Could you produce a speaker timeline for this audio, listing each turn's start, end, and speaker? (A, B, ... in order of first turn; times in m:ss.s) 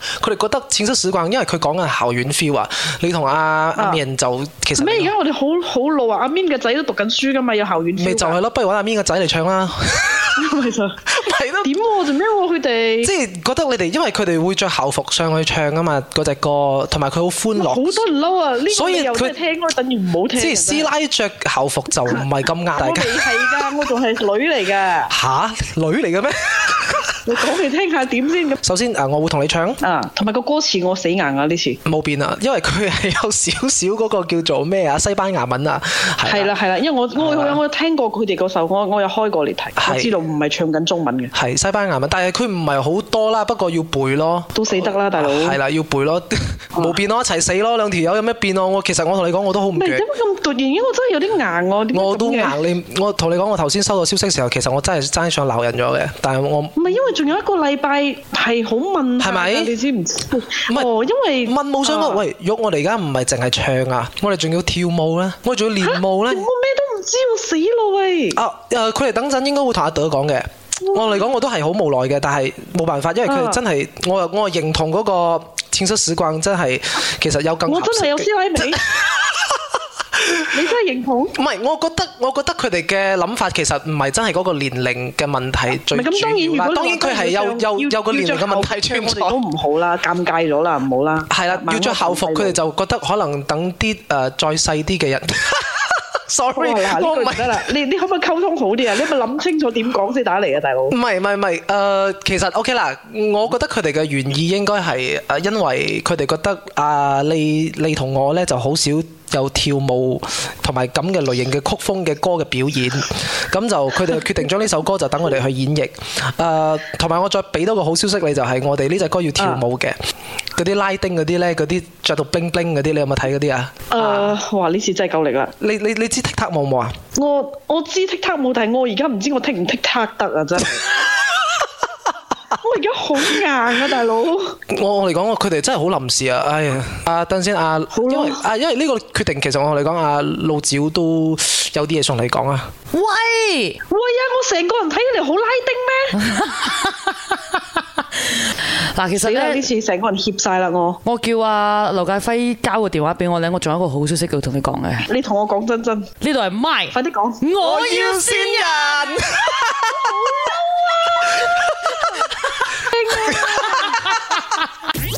0:00.2-0:05.1 A
0:03.8-0:04.0 B
0:04.8-0:08.4 B
0:08.0-0:10.5 A
0:10.4-0:11.0 B
0:11.1-0:11.7 A
0:11.6-0:13.1 B
0:13.0-0:18.0 A
0:17.6-0:20.9 B
0:18.7-0:19.3 A
0:20.4-0:23.7 A
0:22.8-0:25.1 B
0:25.1-0:27.2 A
0:27.2-0:28.6 B
0:28.6-0:29.8 A
0:29.8-0:31.8 B
0:31.8-0:36.5 A
0:36.2-0:41.3 B
0:37.1-0:37.6 A
0:39.8-0:40.1 A
0:41.3-0:50.1 A
0:44.6-0:45.6 B
0:49.8-0:52.6 B
0:51.9-0:56.8 A
0:56.8-1:02.2 B
0:59.2-0:59.7 A
1:01.4-1:06.5 A
1:05.8-1:08.4 B
1:08.3-1:20.5 A
1:13.2-1:13.6 B
1:17.7-1:18.8 B
1:20.5-1:21.3 B
1:21.3-1:29.4 A
1:25.9-1:32.6 B
1:31.3-1:37.7 A
1:36.6-1:41.0 B
1:40.9-2:00.0 A
2:00.6-2:04.3 A
2:03.9-2:05.5 B
2:05.6-2:06.9 A
2:07.2-2:10.8 B
2:12.6-2:14.6 B
2:14.7-2:22.7 A
2:18.0-2:18.4 B
2:22.9-2:23.8 C
2:23.9-2:26.3 B
2:26.2-2:27.2 C
2:28.4-2:29.6 C
2:29.1-2:31.0 B
2:31.0-2:35.1 C
2:35.1-2:36.1 B
2:36.2-2:39.2 C
2:36.9-2:37.4 B
2:37.6-2:40.2 A
2:39.9-2:41.3 B
2:41.4-2:42.0 A
2:42.8-2:44.0 B